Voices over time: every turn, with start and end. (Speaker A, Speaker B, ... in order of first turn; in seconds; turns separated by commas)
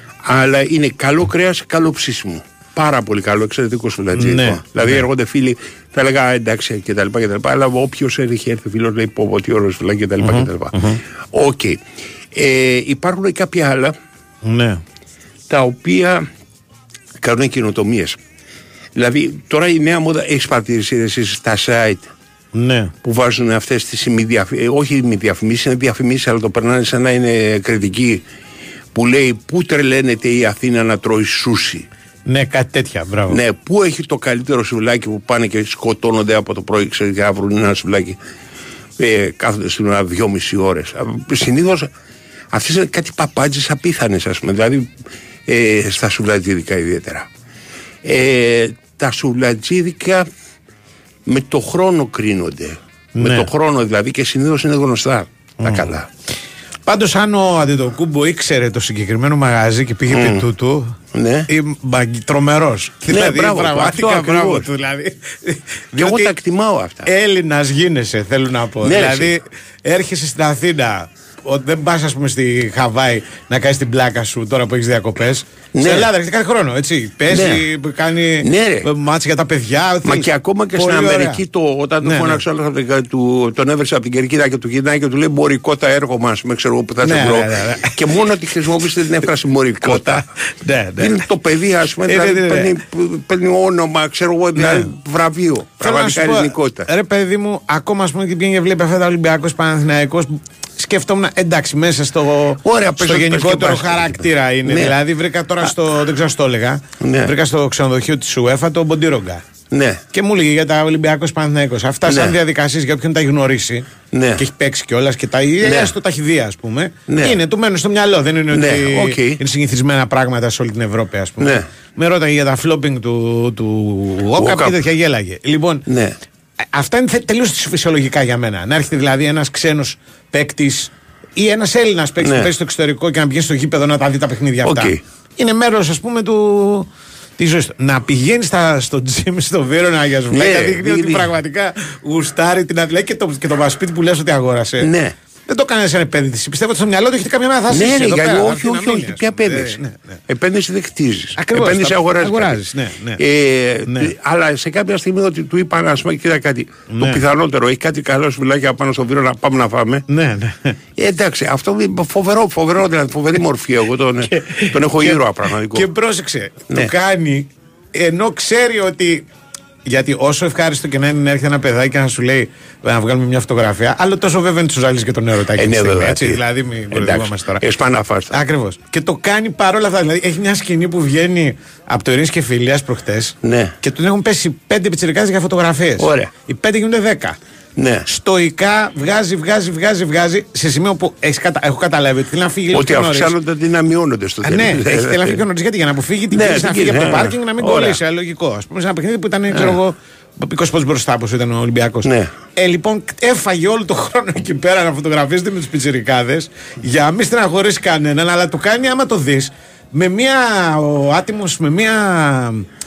Speaker A: 0.2-10.8, Speaker B: 4.1-5.1, Speaker B: 10.2-11.0, Speaker A: 11.3-13.9, Speaker B: 14.4-14.8, Speaker A: 15.5-16.3, Speaker A: 17.2-18.2, Speaker A: 18.9-22.1, Speaker B: 22.5-22.9, Speaker A: 23.0-28.2, Speaker A: 28.9-31.9, Speaker B: 32.3-33.4, Speaker A: 33.3-38.2, Speaker A: 39.0-41.9, Speaker A: 42.5-44.9, Speaker A: 45.5-47.3, Speaker A: 48.0-50.3, Speaker A: 51.2-56.1, Speaker B: 53.1-53.5, Speaker B: 55.6-55.9, Speaker B: 56.9-61.0, Speaker A: 60.1-60.4, Speaker A: 61.1-61.5, Speaker B: 61.5-66.3, Speaker A: 63.1-64.7, Speaker A: 65.9-67.1, Speaker B: 67.0-81.4, Speaker A: 68.8-69.3, Speaker A: 75.7-76.1, Speaker A: 77.3-77.6, Speaker A: 78.4-78.9, Speaker A: 80.0-90.3, Speaker B: 82.0-82.4, Speaker B: 87.0-88.0, Speaker B: 89.8-91.2, Speaker A: 91.0-96.9, Speaker B: 92.1-92.8, Speaker B: 94.5-94.9, Speaker B: 95.8-109.4, Speaker A: 102.6-105.0, Speaker A: 107.0-107.3, Speaker A: 109.7-110.0, Speaker B: 110.1-125.8, Speaker A: 112.0-112.4, Speaker A: 114.1-114.4, Speaker A: 115.6-115.9, Speaker A: 117.1-117.4, Speaker A: 118.5-119.4, Speaker A: 121.4-121.7, Speaker A: 124.3-124.8, Speaker A: 125.9-126.2, Speaker B: 126.7-144.9, Speaker A: 132.2-132.5, Speaker A: 134.6-135.0, Speaker A: 140.3-141.3, Speaker A: 144.8-145.1, Speaker B: 145.5-150.2, Speaker A: 147.7-152.6, Speaker B: 151.3-153.2, Speaker A: 153.2-160.0, Speaker B: 156.9-157.2, Speaker B: 160.1-160.8, Speaker A: 161.0-165.9, Speaker B: 164.3-169.2, Speaker B: 169.8-177.6, Speaker A: 175.5-178.4, Speaker B: 178.3-187.4, Speaker A: 183.4-183.7, Speaker A: 186.0-186.3, Speaker A: 187.8-188.1, Speaker B: 188.1-193.3, Speaker A: 192.7-195.4, Speaker B: 194.4-212.7, Speaker A: 196.3-198.0, Speaker A: 199.5-199.8, Speaker A: 202.0-202.3